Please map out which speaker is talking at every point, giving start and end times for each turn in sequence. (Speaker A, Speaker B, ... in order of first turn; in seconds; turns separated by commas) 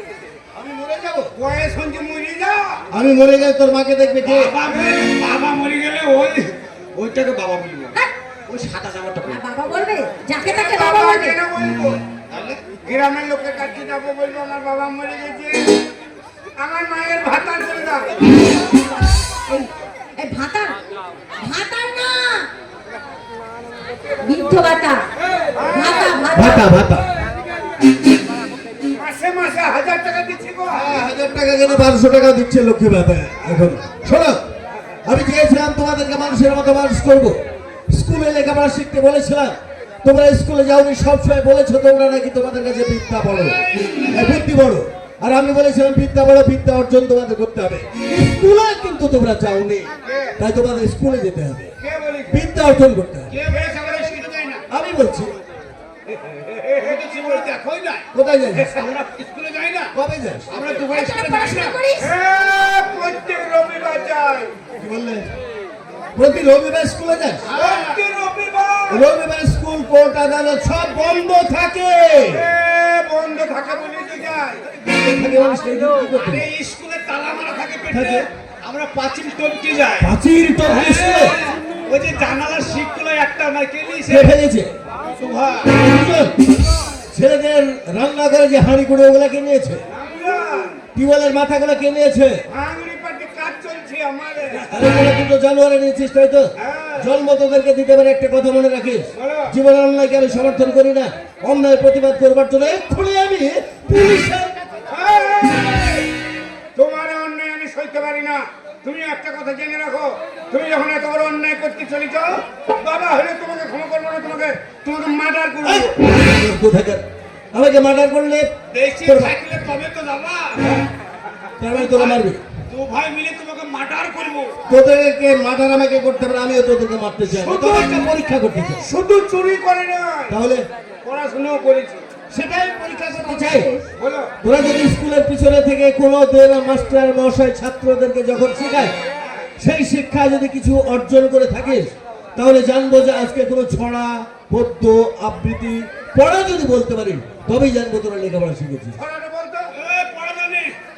Speaker A: 0.5-1.3, Speaker B: 1.3-2.8, Speaker A: 2.9-4.5, Speaker C: 4.2-9.4, Speaker D: 9.3-11.4, Speaker B: 10.4-12.0, Speaker C: 12.3-12.6, Speaker B: 12.8-15.7, Speaker B: 16.6-18.1, Speaker D: 19.5-20.7, Speaker D: 21.4-22.4, Speaker D: 24.2-25.0, Speaker B: 25.5-26.3, Speaker D: 25.7-26.6, Speaker A: 26.3-27.1, Speaker B: 29.0-31.0, Speaker A: 30.7-34.4, Speaker A: 35.0-39.5, Speaker A: 40.0-43.6, Speaker B: 43.7-44.2, Speaker A: 44.1-51.7, Speaker B: 50.0-50.3, Speaker B: 51.8-52.4, Speaker A: 52.3-53.3, Speaker C: 53.3-54.6, Speaker B: 53.4-54.3, Speaker A: 54.7-55.3, Speaker B: 56.1-57.5, Speaker C: 56.8-58.0, Speaker A: 58.1-58.7, Speaker C: 58.7-59.9, Speaker A: 59.9-60.5, Speaker C: 60.5-61.7, Speaker B: 60.5-64.5, Speaker D: 60.9-62.1, Speaker A: 64.8-65.3, Speaker A: 66.1-67.5, Speaker C: 67.5-69.1, Speaker B: 67.5-68.0, Speaker A: 68.9-72.5, Speaker B: 72.3-74.7, Speaker A: 74.8-76.5, Speaker C: 76.2-80.1, Speaker A: 77.9-78.2, Speaker A: 80.0-81.4, Speaker C: 80.6-84.3, Speaker A: 84.1-84.7, Speaker C: 85.2-85.7, Speaker A: 85.7-86.3, Speaker A: 87.1-89.8, Speaker B: 89.9-90.8, Speaker A: 90.9-92.4, Speaker B: 92.5-94.7, Speaker A: 94.7-104.9, Speaker B: 96.6-97.1, Speaker B: 99.1-99.5, Speaker B: 104.9-106.1, Speaker B: 106.8-115.9, Speaker A: 115.6-118.5, Speaker C: 118.7-120.8, Speaker A: 119.0-119.3, Speaker A: 121.6-122.4, Speaker C: 121.7-124.5, Speaker A: 124.7-128.8, Speaker C: 127.3-127.9, Speaker B: 128.8-130.3, Speaker A: 130.3-130.6, Speaker B: 131.0-132.0, Speaker A: 132.3-133.7, Speaker D: 133.1-133.8, Speaker B: 134.0-134.3, Speaker A: 134.4-138.9, Speaker B: 139.2-139.4, Speaker A: 139.6-149.0, Speaker B: 149.0-149.7, Speaker C: 149.7-150.7